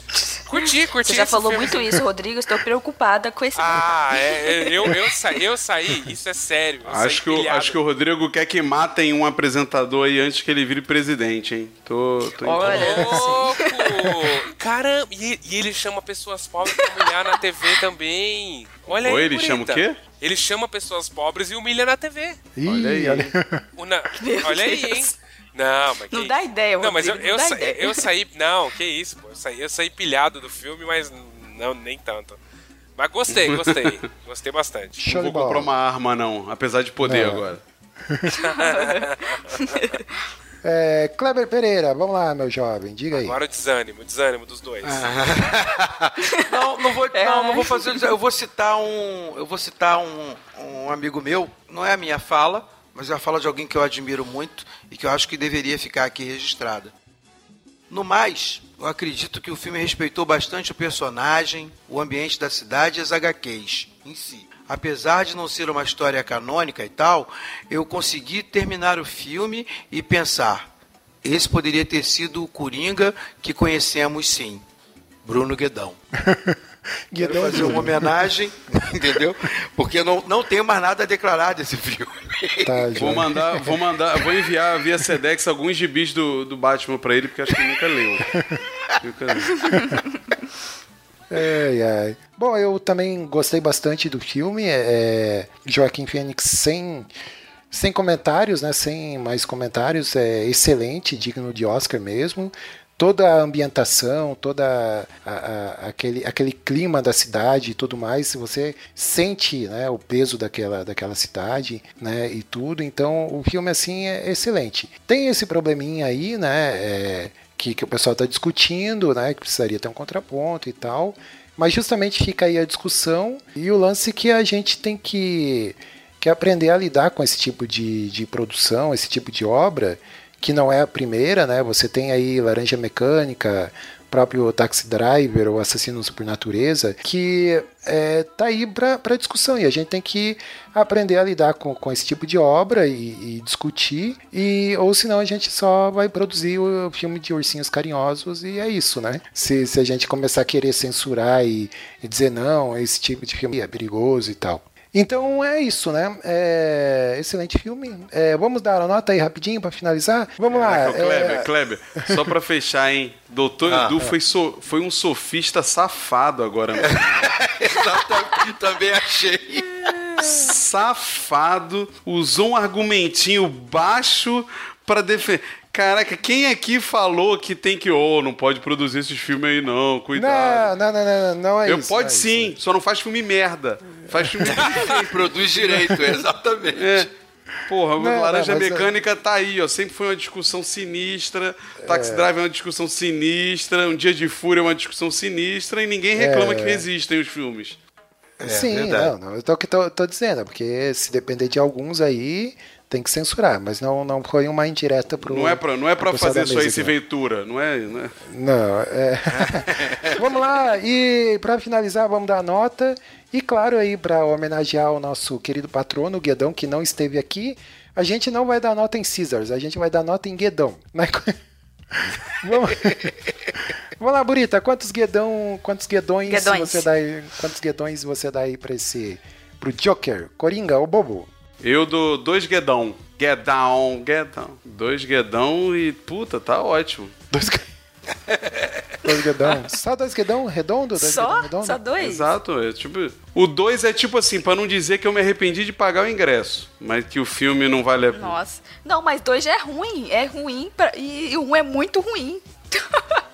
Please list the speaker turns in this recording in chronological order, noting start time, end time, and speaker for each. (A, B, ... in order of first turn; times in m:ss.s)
0:00.5-0:02.0 A
0:01.0-0:04.9 B
0:03.6-0:07.8 A
0:06.9-0:13.3 C
0:12.4-0:14.4 B
0:12.5-0:22.5 A
0:16.8-0:17.0 B
0:19.0-0:20.0 C
0:22.6-0:23.6 D
0:22.7-0:23.3 C
0:23.8-0:32.4 A
0:24.2-0:25.1 B
0:26.1-0:28.1 B
0:33.0-0:35.0 A
0:33.4-0:33.9 C
0:35.0-0:35.7 D
0:35.1-0:37.6 C
0:37.0-0:37.5 D
0:38.1-0:38.3 D
0:38.4-0:39.6 A
0:38.5-0:40.0 B
0:40.6-0:43.4 D
0:43.1-0:45.1 A
0:44.8-0:56.9 E
0:47.1-0:48.0 B
0:57.9-1:10.7 E
1:11.2-1:14.6 E
1:15.2-1:16.0 E
1:16.1-1:16.6 D
1:17.1-1:18.3 D
1:17.2-1:23.3 E
1:22.6-1:23.7 D
1:23.0-1:28.3 C
1:29.0-1:29.9 C
1:31.3-1:37.1 D
1:37.7-2:41.5 D
2:40.5-2:47.3 C
2:43.6-2:44.0 E
2:46.8-2:49.9 E
2:50.2-3:00.7 C
3:00.2-3:02.6 D
3:01.6-3:05.1 C
3:04.5-3:07.1 E
3:06.8-3:07.1 C
3:07.7-3:17.8 C
3:08.0-3:08.9 D
3:11.8-3:12.3 D
3:16.2-3:16.9 D
3:18.4-3:19.1 E
3:18.4-3:26.9 D
3:25.2-3:28.2 C
3:28.3-3:41.3 D
3:29.4-3:30.1 E
3:41.9-3:43.2 D
3:44.0-3:51.3 D
3:46.3-3:46.9 B
3:51.6-3:57.1 C
3:57.3-3:57.6 D
3:58.3-3:58.9 E
3:59.0-4:01.8 D
4:01.0-4:02.3 B
4:02.0-4:08.4 C
4:08.1-4:13.2 B